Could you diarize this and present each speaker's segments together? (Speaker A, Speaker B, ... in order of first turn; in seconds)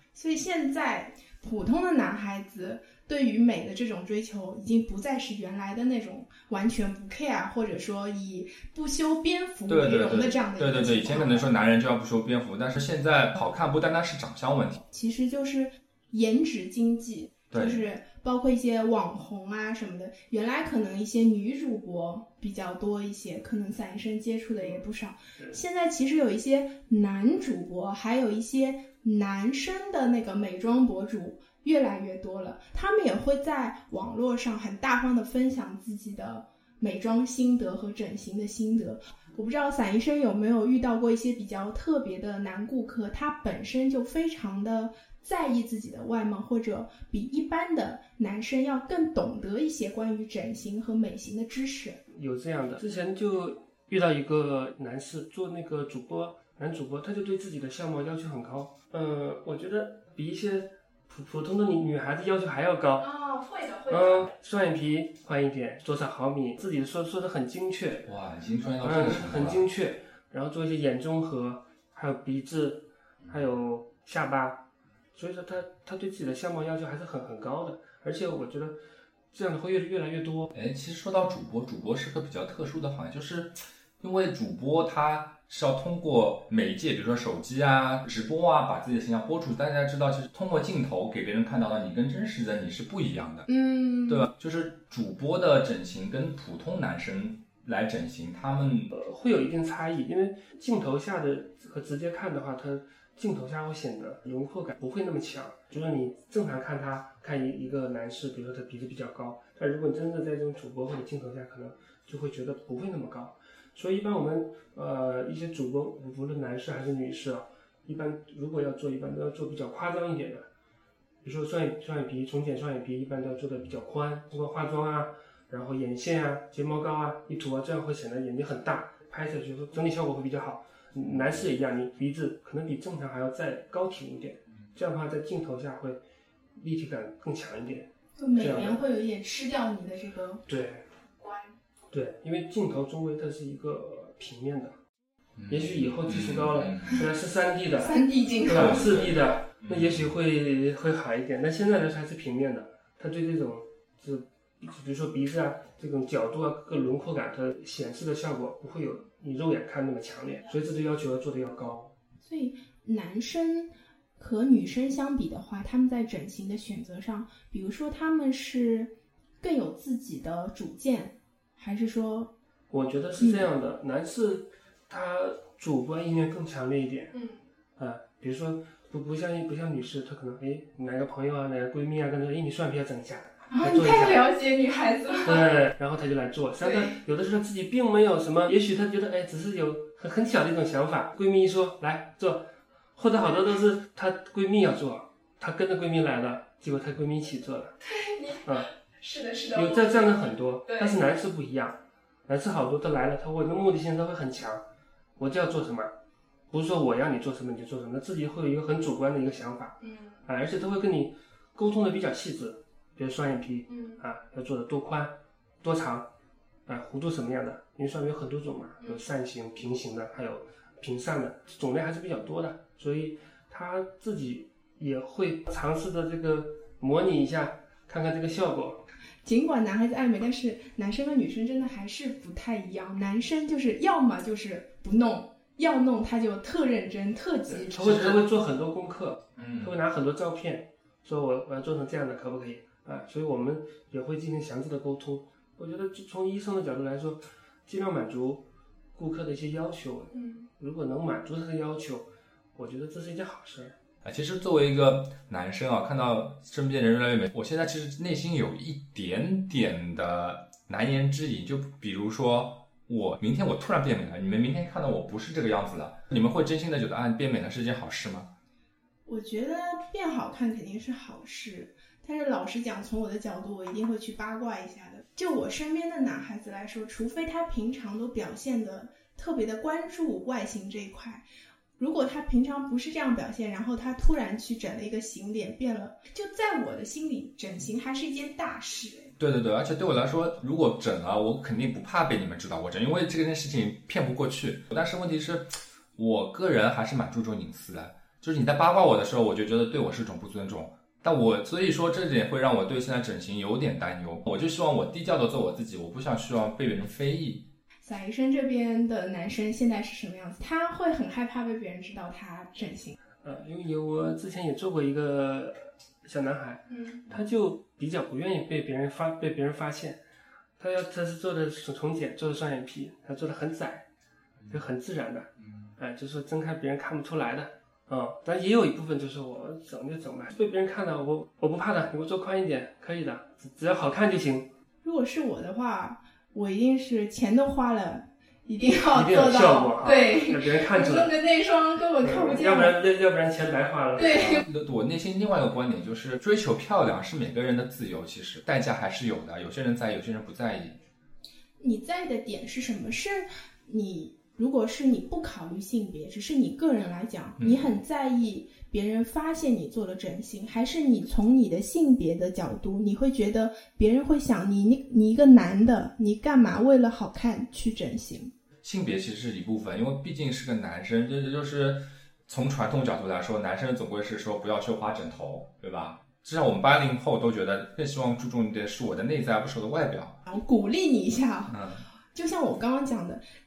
Speaker A: 0.1-11.5, 14.9-52.0, 63.0-64.3, 93.5-94.2, 138.2-140.4, 141.2-141.4, 147.8-149.0, 162.2-172.3, 173.2-173.5, 183.5-185.5, 186.6-186.9, 197.8-198.4, 199.0-200.1, 200.7-200.9, 213.7-214.0, 229.2-238.2, 250.1-250.4, 269.1-281.2, 281.8-289.1, 307.8-312.9, 316.7-317.0, 334.8-342.7, 344.0-344.4, 351.6-368.3, 380.2-381.6, 382.1-383.2
Speaker B: 9.7-14.8, 17.5-17.8, 68.0-69.6, 80.5-93.5, 94.1-98.9, 145.4-147.0, 148.6-149.1, 149.6-150.1, 239.4-239.8, 254.0-268.3, 289.2-307.5, 344.1-350.8, 357.4-357.7, 368.6-380.2, 381.5-381.9
Speaker C: 52.1-63.1, 63.9-68.1, 68.8-78.8, 79.3-80.5, 98.9-120.4, 121.2-136.0, 136.6-138.8, 140.5-140.8, 141.9-144.8, 145.5-161.9, 172.7-177.1, 177.8-184.2, 185.2-197.8, 198.4-198.7, 199.5-204.7, 205.2-205.9, 206.5-216.1, 216.7-228.8, 237.5-253.8, 313.2-320.0, 320.6-323.9, 324.5-334.5, 338.9-341.1, 342.0-344.3